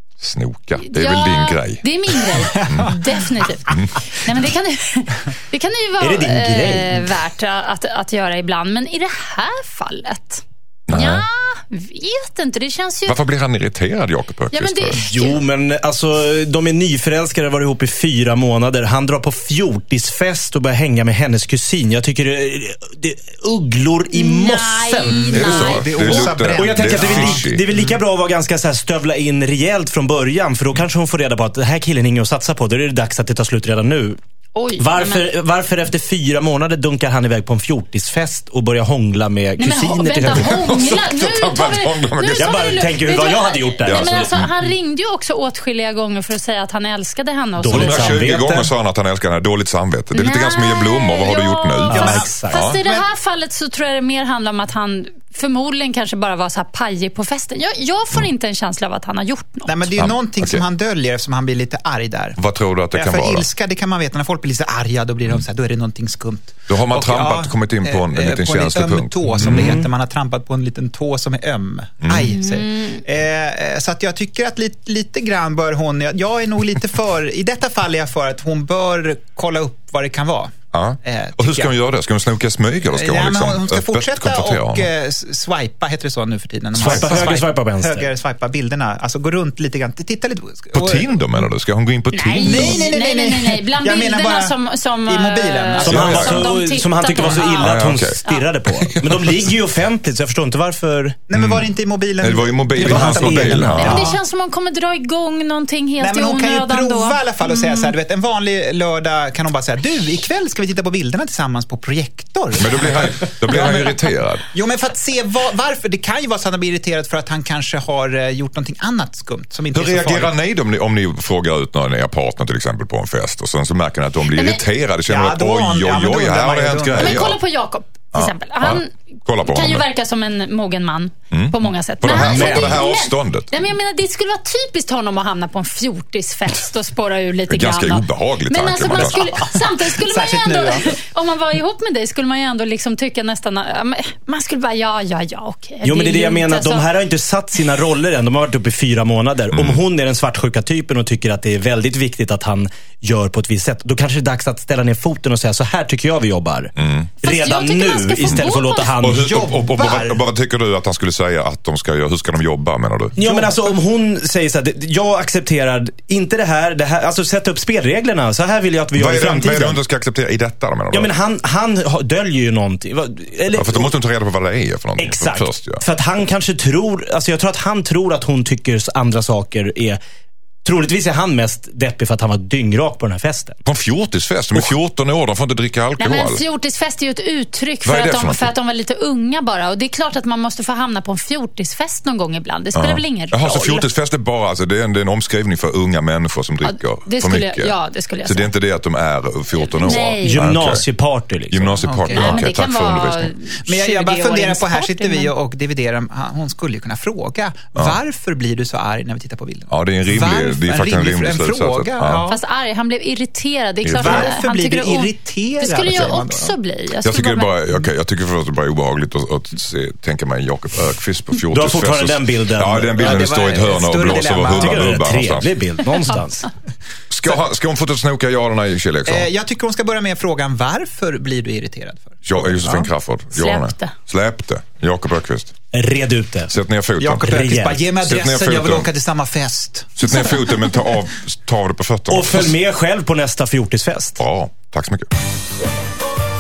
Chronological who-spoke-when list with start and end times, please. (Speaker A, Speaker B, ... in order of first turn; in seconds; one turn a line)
Speaker A: 0.2-3.0
Speaker B: 0.8-13.2
Speaker C: 2.5-3.0
Speaker A: 3.7-4.0
Speaker D: 6.0-7.1
Speaker A: 10.9-11.2
Speaker A: 13.1-15.0
Speaker B: 14.5-15.4
Speaker D: 14.9-25.4
Speaker B: 24.1-26.2
Speaker C: 25.1-28.0
Speaker A: 25.3-27.6
Speaker D: 26.6-34.2
Speaker B: 34.5-35.3
Speaker D: 34.8-40.8
Speaker B: 39.6-48.3
Speaker A: 40.3-42.6
Speaker D: 42.4-44.5
Speaker A: 43.9-44.5
Speaker D: 47.6-48.7
Speaker A: 47.7-52.8
Speaker B: 50.1-59.8
Speaker D: 51.9-52.7
Speaker C: 51.9-53.0
Speaker C: 59.7-62.4
Speaker A: 59.9-60.6
Speaker A: 62.4-63.5
Speaker C: 62.9-81.7
Speaker A: 66.7-69.8
Speaker D: 69.4-69.9
Speaker A: 72.0-72.4
Speaker B: 72.3-73.0
Speaker A: 80.7-84.9
Speaker C: 82.9-91.2
Speaker D: 86.7-88.1
Speaker A: 86.8-87.2
Speaker A: 90.7-92.9
Speaker B: 92.1-97.7
Speaker C: 92.4-96.5
Speaker D: 95.8-101.2
Speaker A: 95.8-96.4
Speaker A: 97.6-98.2
Speaker A: 98.7-99.5
Speaker C: 101.3-104.2
Speaker A: 101.3-104.0
Speaker D: 102.8-104.1
Speaker B: 103.8-107.9
Speaker C: 106.0-113.9
Speaker A: 112.5-114.5
Speaker C: 114.5-120.3
Speaker A: 119.7-127.4
Speaker B: 124.3-124.6
Speaker C: 125.1-127.3
Speaker B: 127.0-146.9
Speaker A: 128.1-129.9
Speaker A: 131.3-133.7
Speaker D: 132.1-132.8
Speaker A: 137.5-139.6
Speaker C: 139.9-141.0
Speaker D: 145.8-159.4
Speaker A: 149.5-149.8
Speaker A: 156.8-157.1
Speaker B: 157.2-158.9
Speaker A: 159.0-163.1
Speaker C: 159.1-160.2
Speaker D: 163.2-169.8
Speaker C: 163.2-163.8
Speaker A: 168.9-171.1
Speaker D: 170.9-173.9
Speaker A: 173.5-175.8
Speaker D: 175.0-180.0
Speaker D: 180.6-183.6
Speaker A: 183.7-186.4
Speaker B: 186.0-193.9
Speaker A: 187.8-188.5
Speaker A: 192.8-197.7
Speaker B: 196.6-198.5
Speaker A: 198.2-200.9
Speaker B: 199.6-200.4
Speaker D: 200.2-201.8
Speaker A: 201.5-203.3
Speaker C: 201.8-202.4
Speaker B: 202.1-205.3
Speaker C: 203.7-212.4
Speaker A: 209.7-212.2
Speaker B: 212.3-217.8
Speaker A: 213.8-214.4
Speaker C: 213.9-216.5
Speaker A: 217.0-225.6
Speaker D: 221.5-223.5
Speaker C: 223.0-225.0
Speaker D: 224.3-226.5
Speaker A: 227.1-229.3
Speaker C: 229.1-232.9
Speaker A: 232.2-235.5
Speaker B: 233.3-234.0
Speaker D: 235.7-236.5
Speaker A: 236.5-237.4
Speaker C: 237.0-240.3
Speaker D: 237.2-237.9
Speaker A: 238.0-238.9
Speaker A: 240.0-242.5
Speaker D: 242.1-244.2
Speaker A: 244.2-245.1